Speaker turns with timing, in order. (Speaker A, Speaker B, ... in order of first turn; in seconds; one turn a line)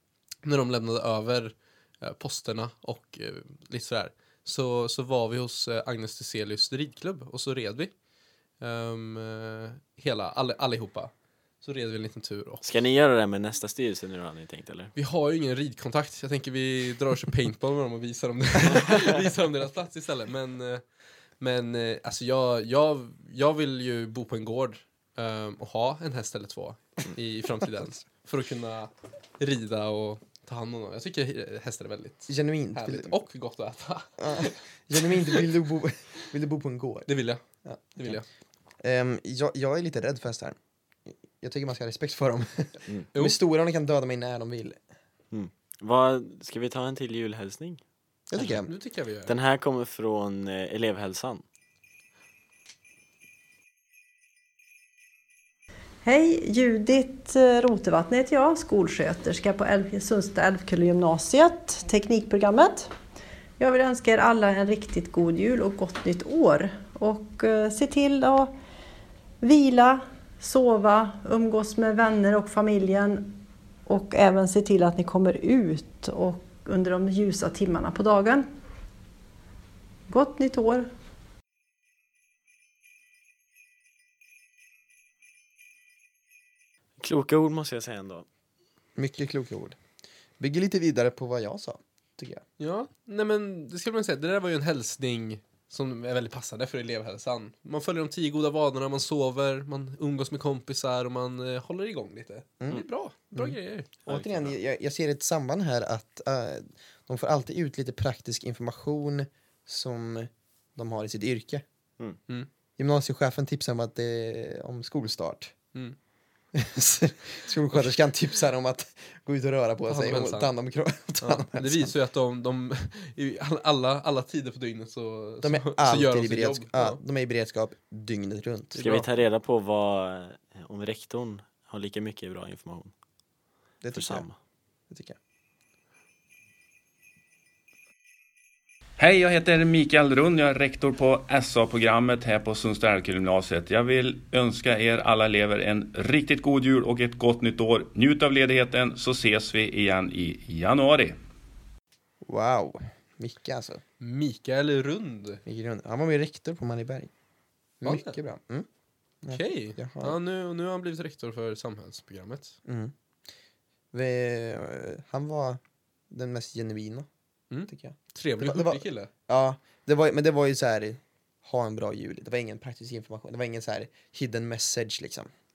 Speaker A: 0.4-7.9
Speaker A: 8.6-12.6
Speaker B: 12.6-14.9
Speaker A: 14.9-20.8
Speaker A: 21.4-35.4
Speaker C: 32.3-33.1
Speaker C: 34.2-37.1
Speaker A: 37.1-37.4
Speaker C: 37.6-38.2
Speaker A: 38.0-38.2
Speaker C: 38.8-40.6
Speaker C: 41.1-44.8
Speaker B: 45.3-47.8
Speaker C: 48.3-48.7
Speaker A: 48.4-49.3
Speaker B: 49.2-51.4
Speaker D: 56.0-62.9
Speaker D: 63.6-68.5
Speaker D: 69.4-78.5
Speaker D: 80.1-80.9
Speaker B: 87.0-88.2
Speaker C: 89.0-89.8
Speaker C: 90.4-92.4
Speaker A: 92.6-103.9
Speaker C: 102.6-111.6
Speaker B: 104.0-104.6
Speaker C: 112.8-115.5
Speaker C: 116.5-121.9
Speaker A: 119.9-120.5
Speaker A: 121.2-127.0
Speaker C: 125.4-129.0
Speaker B: 128.7-132.9
Speaker A: 128.8-129.0
Speaker C: 133.8-134.2
Speaker B: 133.9-134.3
Speaker C: 134.9-135.2
Speaker E: 139.0-151.2
Speaker C: 152.2-153.8
Speaker A: 154.0-155.4
Speaker C: 155.4-157.1
Speaker C: 157.8-158.7
Speaker A: 157.8-158.2
Speaker C: 159.2-160.2
Speaker A: 159.3-162.6
Speaker C: 162.7-162.9
Speaker C: 163.9-165.6
Speaker C: 166.1-167.1
Speaker A: 167.5-169.1
Speaker C: 167.7-175.3